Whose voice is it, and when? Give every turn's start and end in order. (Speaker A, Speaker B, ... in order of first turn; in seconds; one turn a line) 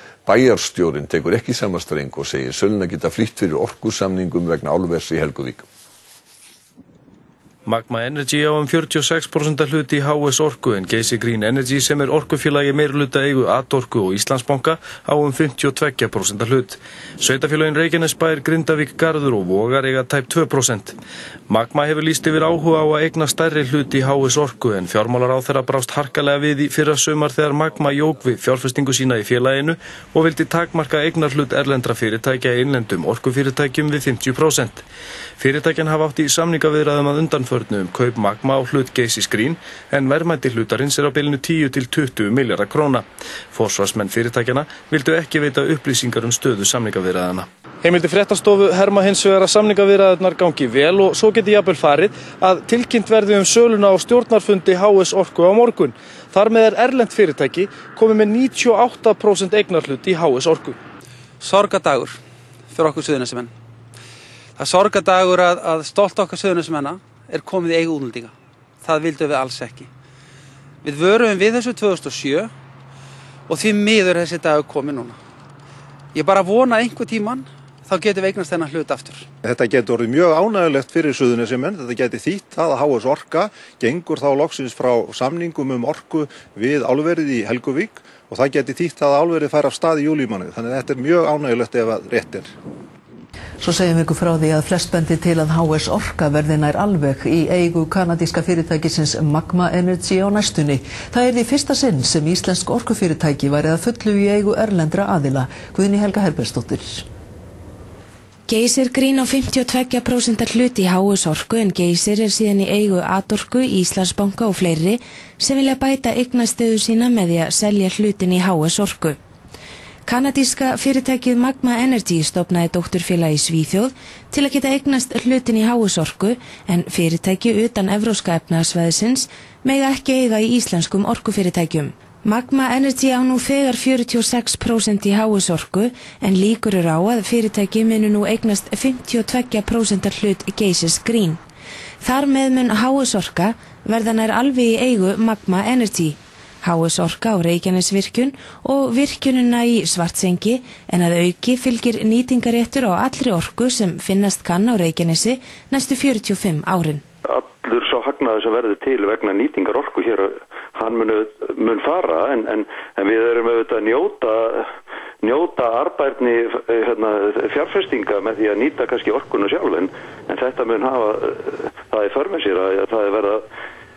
Speaker A: 0.3-5.7
Speaker B: 7.7-21.0
Speaker B: 21.5-34.9
Speaker B: 35.4-60.8
Speaker C: 61.4-62.2
Speaker C: 62.7-63.5
Speaker C: 64.6-69.9
Speaker C: 70.8-72.5
Speaker C: 73.5-75.2
Speaker C: 76.1-79.3
Speaker D: 79.4-92.5
Speaker E: 93.6-107.1
Speaker F: 108.5-119.2
Speaker F: 120.1-141.4
Speaker F: 142.0-157.0
Speaker G: 157.3-164.7
Speaker G: 165.2-173.4